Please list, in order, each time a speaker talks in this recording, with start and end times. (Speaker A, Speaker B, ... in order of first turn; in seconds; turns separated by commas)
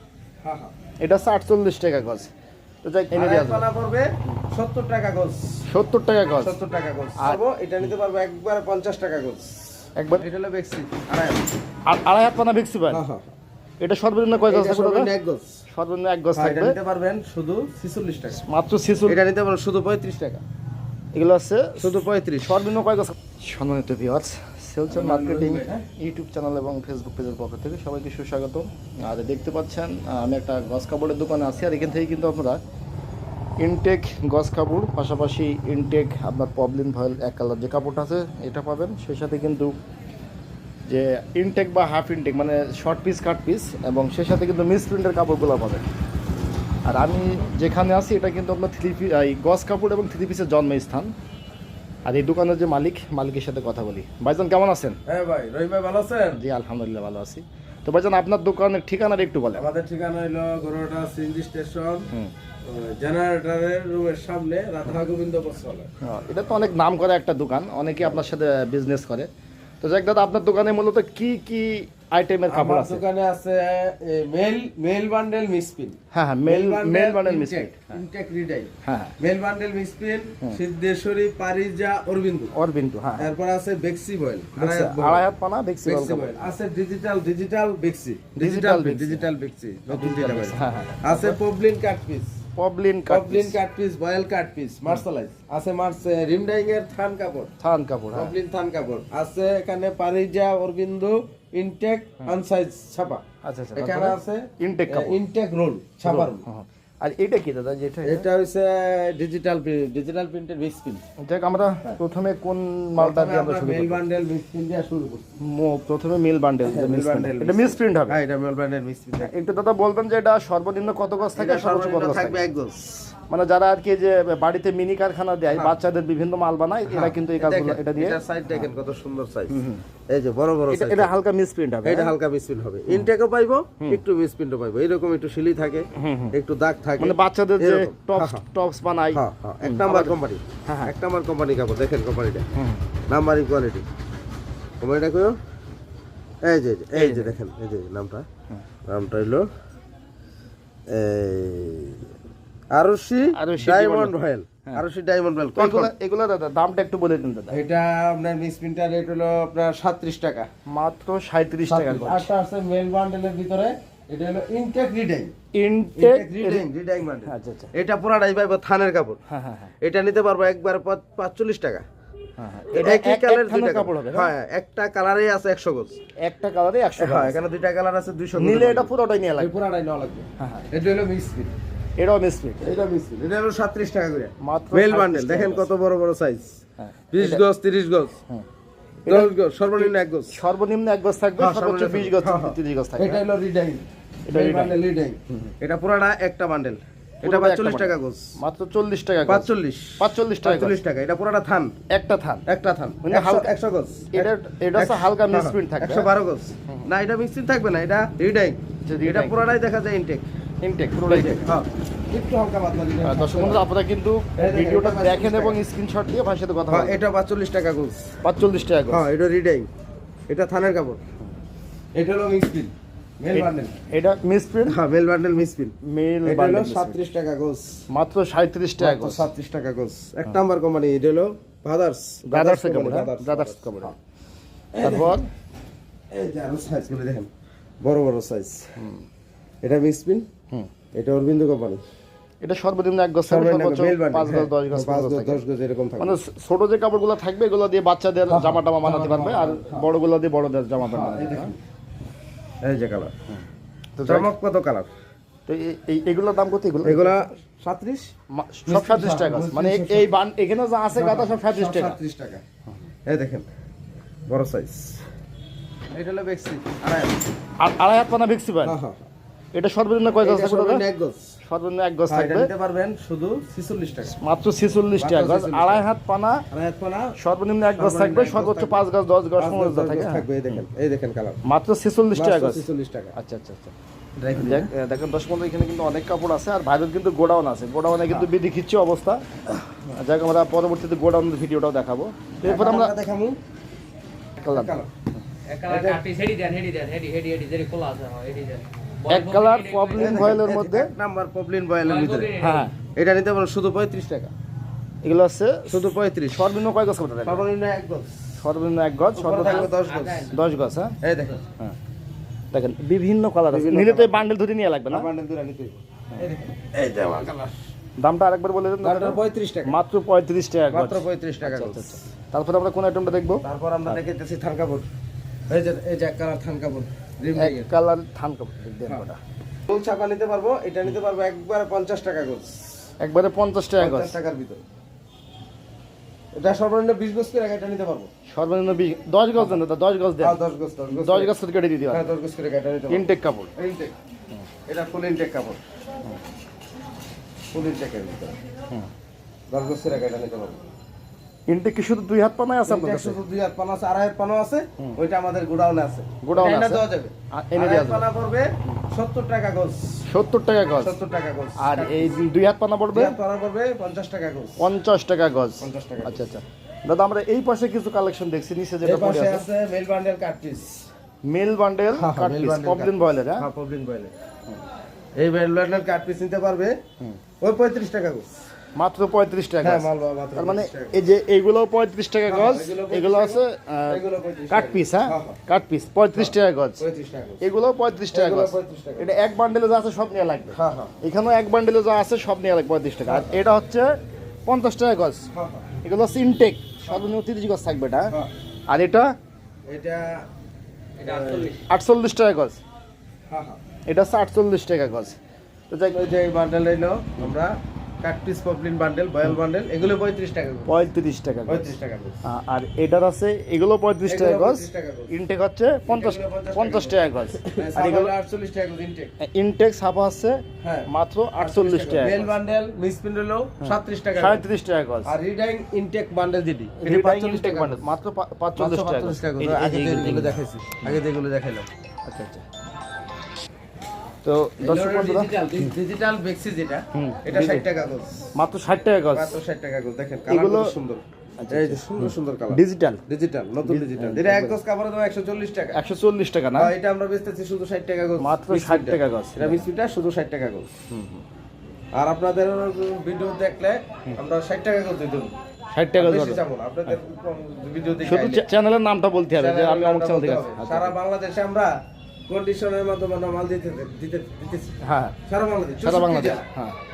Speaker A: 1.0-2.3, Speaker A: 2.8-3.6, Speaker B: 3.1-5.5, Speaker A: 5.7-6.6, Speaker B: 6.4-9.6, Speaker A: 9.9-10.2, Speaker B: 10.2-11.4, Speaker A: 11.9-13.0, Speaker B: 12.9-13.3, Speaker A: 13.8-15.1, Speaker B: 14.5-15.6, Speaker A: 15.7-16.8, Speaker B: 16.4-18.4, Speaker A: 18.4-19.2, Speaker B: 19.1-20.4, Speaker A: 21.1-32.6, Speaker B: 21.8-22.5, Speaker B: 24.9-25.9, Speaker A: 33.6-39.7, Speaker A: 40.9-45.8, Speaker A: 46.9-51.1, Speaker A: 52.0-55.0, Speaker B: 55.1-56.4, Speaker A: 56.4-59.7, Speaker B: 59.6-62.1, Speaker B: 62.6-65.9, Speaker A: 66.0-69.3, Speaker A: 69.8-73.0, Speaker B: 72.5-76.0, Speaker A: 76.1-78.0, Speaker B: 76.5-82.5, Speaker A: 78.8-79.1, Speaker A: 82.5-83.3, Speaker B: 83.2-85.2, Speaker A: 84.5-86.6, Speaker B: 85.8-92.3, Speaker A: 88.3-89.3, Speaker A: 89.9-91.4, Speaker A: 92.5-93.6, Speaker B: 93.1-97.5, Speaker A: 97.6-98.3, Speaker B: 98.1-103.2, Speaker A: 103.4-105.2, Speaker B: 103.8-106.4, Speaker A: 106.0-108.3, Speaker B: 108.0-111.0, Speaker A: 111.2-114.0, Speaker B: 113.0-115.2, Speaker A: 115.4-118.2, Speaker B: 116.7-119.3, Speaker A: 119.2-122.4, Speaker B: 121.3-123.1, Speaker A: 123.3-128.7, Speaker B: 127.0-129.6, Speaker A: 129.5-129.8, Speaker B: 130.1-131.1, Speaker A: 130.7-132.2, Speaker B: 131.8-138.4, Speaker A: 135.9-136.3, Speaker A: 137.0-140.9, Speaker B: 139.1-142.5, Speaker A: 142.5-142.8, Speaker B: 143.1-143.8, Speaker B: 144.8-145.4, Speaker B: 146.4-148.2, Speaker A: 146.9-147.3, Speaker B: 148.9-149.5, Speaker B: 150.9-152.1, Speaker B: 152.7-155.9, Speaker A: 153.3-154.1, Speaker A: 155.6-157.6, Speaker B: 157.5-160.5, Speaker A: 160.7-162.3, Speaker B: 161.7-165.3, Speaker A: 165.5-166.7, Speaker B: 165.9-169.2, Speaker A: 167.2-167.7, Speaker A: 169.3-169.7, Speaker B: 169.8-171.8, Speaker A: 172.4-174.3, Speaker B: 172.7-176.0, Speaker A: 176.2-177.4, Speaker B: 177.0-181.5, Speaker A: 178.3-179.5, Speaker A: 180.4-180.7, Speaker A: 182.0-182.8, Speaker B: 182.6-186.5, Speaker A: 184.4-185.7, Speaker A: 186.8-187.4, Speaker B: 187.1-188.2, Speaker A: 189.0-193.2, Speaker B: 189.1-190.3, Speaker B: 191.4-198.3, Speaker A: 194.3-194.8, Speaker A: 197.2-199.5, Speaker B: 199.3-201.8, Speaker A: 200.0-200.8, Speaker A: 201.9-202.4, Speaker B: 202.5-204.3, Speaker A: 203.0-203.5, Speaker A: 204.1-206.1, Speaker B: 204.8-210.2, Speaker A: 208.8-209.5, Speaker A: 210.6-211.5, Speaker B: 211.1-213.6, Speaker A: 213.0-217.0, Speaker B: 214.3-215.6, Speaker B: 216.7-218.1, Speaker A: 218.2-219.1, Speaker B: 218.9-219.7, Speaker B: 220.3-221.0, Speaker B: 222.0-223.8, Speaker A: 223.3-224.8, Speaker B: 224.7-225.7, Speaker A: 225.8-227.0, Speaker B: 226.2-227.8, Speaker A: 227.9-229.2, Speaker B: 228.8-233.9, Speaker A: 232.2-233.9, Speaker B: 234.8-235.2, Speaker A: 234.8-235.3, Speaker B: 236.1-237.3, Speaker B: 237.8-238.7, Speaker A: 238.8-239.0, Speaker B: 239.6-240.2, Speaker B: 241.0-241.8, Speaker A: 242.4-245.4, Speaker B: 243.3-246.2, Speaker A: 246.0-251.5, Speaker B: 248.3-249.9, Speaker B: 250.8-251.6, Speaker B: 252.6-253.1, Speaker A: 254.0-254.3, Speaker B: 254.1-254.9, Speaker A: 255.4-257.3, Speaker B: 256.8-258.1, Speaker A: 258.3-262.0, Speaker B: 258.7-260.1, Speaker B: 260.9-262.4, Speaker B: 263.1-263.4, Speaker B: 264.3-265.0, Speaker B: 265.9-267.2, Speaker A: 267.6-268.8, Speaker B: 268.7-269.1, Speaker A: 269.5-270.8, Speaker B: 270.2-271.3, Speaker A: 271.4-272.5, Speaker B: 272.1-274.1, Speaker A: 274.1-276.4, Speaker B: 275.0-275.8, Speaker B: 276.5-277.1, Speaker A: 277.2-280.6, Speaker B: 277.8-278.8, Speaker B: 279.4-281.4, Speaker A: 281.4-283.7, Speaker B: 282.1-283.1, Speaker B: 284.2-284.7, Speaker A: 284.3-293.0, Speaker B: 292.4-293.4, Speaker A: 294.4-294.8, Speaker B: 294.5-294.9, Speaker C: 295.5-300.5, Speaker B: 295.7-296.0, Speaker A: 299.1-300.9, Speaker B: 300.0-302.3, Speaker C: 301.8-302.6, Speaker A: 302.3-302.8, Speaker B: 302.9-304.3, Speaker A: 305.0-307.4, Speaker B: 305.7-306.4, Speaker B: 307.2-308.1, Speaker A: 308.4-310.9, Speaker B: 309.1-310.3, Speaker C: 309.4-310.3, Speaker B: 311.0-311.3, Speaker A: 312.5-315.1, Speaker B: 313.5-314.2, Speaker B: 315.0-317.6, Speaker A: 318.0-324.0, Speaker B: 318.8-319.7, Speaker B: 320.7-322.0, Speaker B: 323.4-324.9, Speaker B: 325.5-327.7, Speaker A: 327.3-329.2, Speaker B: 329.7-332.6, Speaker A: 333.0-334.1, Speaker B: 333.8-334.6, Speaker B: 336.4-338.1, Speaker A: 338.2-340.4, Speaker B: 340.2-341.3, Speaker A: 340.9-342.1, Speaker B: 341.9-343.0, Speaker A: 342.9-343.5, Speaker B: 343.6-343.9, Speaker B: 344.7-345.6, Speaker B: 347.5-348.3, Speaker B: 349.5-350.6, Speaker A: 351.5-353.2, Speaker B: 352.6-359.9, Speaker A: 356.2-358.1, Speaker A: 360.1-361.0, Speaker B: 360.8-362.1, Speaker A: 361.6-363.2, Speaker B: 362.9-364.6, Speaker A: 364.6-369.5, Speaker B: 365.6-366.3, Speaker B: 368.8-370.8, Speaker A: 371.2-373.5, Speaker B: 372.0-374.1, Speaker B: 375.2-376.8, Speaker B: 377.4-378.3, Speaker A: 378.8-386.8, Speaker B: 379.6-381.0, Speaker B: 382.3-385.4, Speaker B: 386.1-387.4, Speaker A: 387.4-393.9, Speaker B: 388.1-389.1, Speaker B: 390.6-390.9, Speaker A: 394.4-395.3, Speaker B: 395.3-395.7, Speaker A: 395.8-398.1, Speaker A: 398.7-399.1, Speaker B: 399.7-400.2, Speaker C: 401.0-401.6, Speaker B: 401.1-401.5, Speaker A: 401.6-402.6, Speaker B: 403.3-403.6, Speaker A: 403.9-405.2, Speaker A: 405.7-406.0, Speaker B: 405.9-407.5, Speaker B: 408.0-410.9, Speaker A: 410.7-418.1, Speaker B: 411.5-412.2, Speaker B: 414.1-415.1, Speaker B: 415.9-419.1, Speaker A: 419.2-422.4, Speaker B: 421.4-424.4, Speaker A: 423.6-425.1, Speaker B: 425.1-427.9, Speaker A: 426.8-431.0, Speaker B: 428.6-431.7, Speaker A: 432.1-432.4, Speaker A: 434.2-435.4, Speaker B: 434.6-438.3, Speaker A: 436.9-437.6, Speaker A: 438.3-439.4, Speaker B: 439.1-445.8, Speaker A: 440.3-440.7, Speaker A: 441.4-443.0, Speaker A: 443.6-444.6, Speaker A: 445.7-446.7, Speaker B: 446.6-450.7, Speaker A: 448.2-449.6, Speaker A: 450.9-451.2, Speaker B: 452.0-455.3, Speaker A: 455.7-456.9, Speaker B: 456.0-458.4, Speaker A: 458.0-460.9, Speaker B: 459.4-461.7, Speaker B: 462.3-464.8, Speaker A: 464.8-465.1, Speaker B: 465.3-466.4, Speaker A: 465.8-466.8